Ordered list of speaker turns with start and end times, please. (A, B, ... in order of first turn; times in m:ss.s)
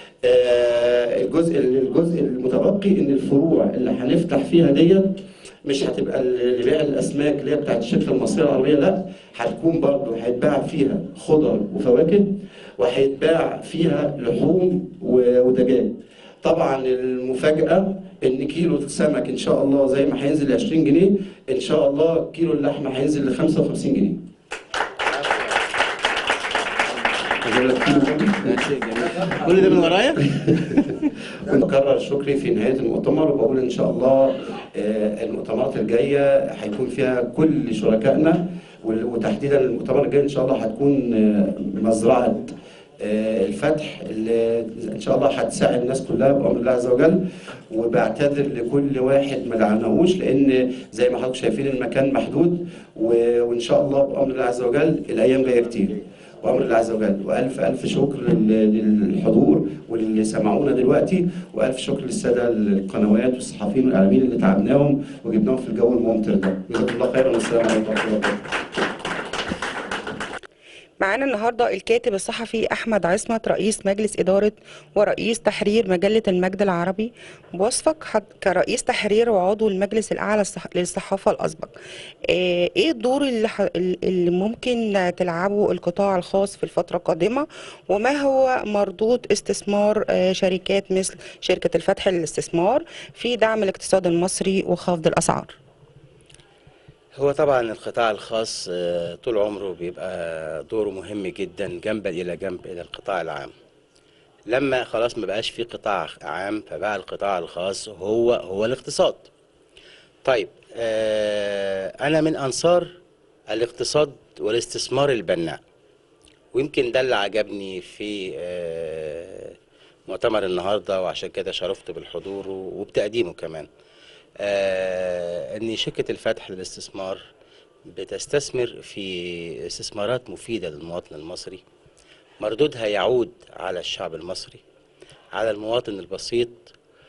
0:00.2-0:24.2 A
0:25.1-0:25.6 B
0:27.4-0:28.6 A
0:27.5-0:31.1 B
0:29.5-0:29.8 A
0:31.4-1:08.4 A
1:11.0-1:21.7 C
1:22.3-1:35.6 C
1:37.2-1:43.5 B
1:44.5-1:49.3 B
1:50.2-1:52.9 B
1:53.5-1:55.6 B
1:56.5-1:59.5 B
2:00.1-2:03.7 B
2:04.4-2:07.2 B
2:07.9-2:11.6 B
2:12.4-2:14.6 B
2:15.3-2:16.7 B